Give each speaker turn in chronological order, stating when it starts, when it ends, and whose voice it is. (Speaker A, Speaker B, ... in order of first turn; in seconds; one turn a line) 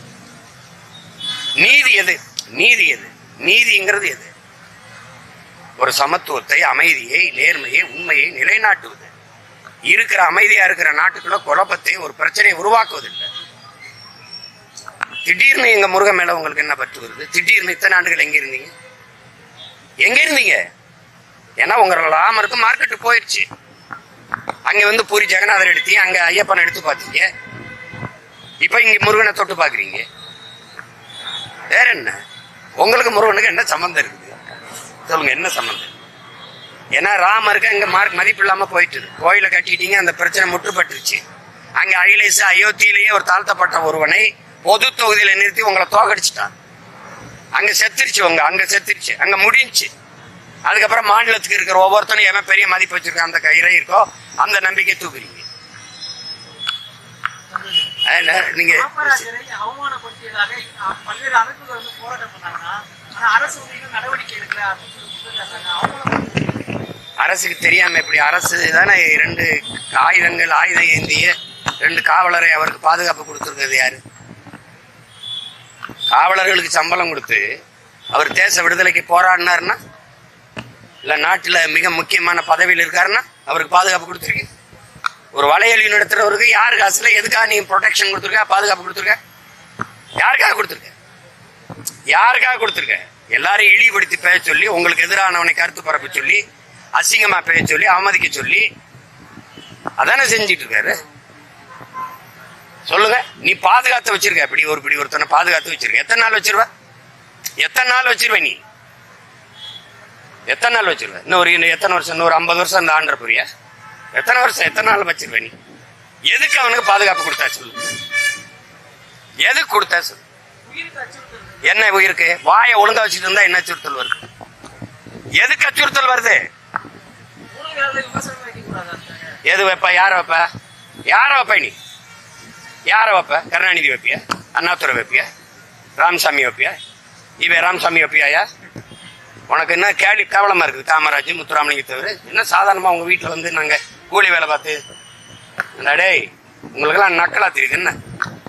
Speaker A: 1.6-4.3
Speaker A: 5.8-9.1
Speaker A: 9.9-13.3
Speaker A: 15.2-18.7
Speaker A: 20.0-20.6
Speaker A: 21.6-23.4
Speaker A: 24.6-27.3
Speaker A: 28.6-30.0
Speaker A: 31.7-32.2
Speaker A: 32.8-34.4
Speaker A: 35.0-35.9
Speaker A: 36.9-41.2
Speaker A: 41.8-46.5
Speaker A: 47.5-49.9
Speaker A: 50.6-55.4
Speaker A: 58.0-59.2
Speaker B: 58.6-66.7
Speaker A: 67.2-74.0
Speaker A: 76.1-77.5
Speaker A: 78.1-79.8
Speaker A: 81.0-84.5
Speaker A: 85.3-89.2
Speaker A: 90.2-90.9
Speaker A: 92.1-96.4
Speaker A: 96.9-98.7
Speaker A: 100.0-101.0
Speaker A: 102.9-106.7
Speaker A: 107.6-108.6
Speaker A: 110.5-113.4
Speaker A: 114.1-115.5
Speaker A: 116.3-117.8
Speaker A: 119.4-120.2
Speaker B: 120.7-121.6
Speaker A: 121.6-124.2
Speaker A: 125.4-126.4
Speaker B: 127.5-129.4
Speaker A: 129.4-130.5
Speaker A: 131.1-131.7
Speaker A: 132.9-135.3
Speaker A: 136.0-136.8
Speaker A: 137.4-138.5
Speaker A: 139.5-144.8
Speaker A: 145.8-147.9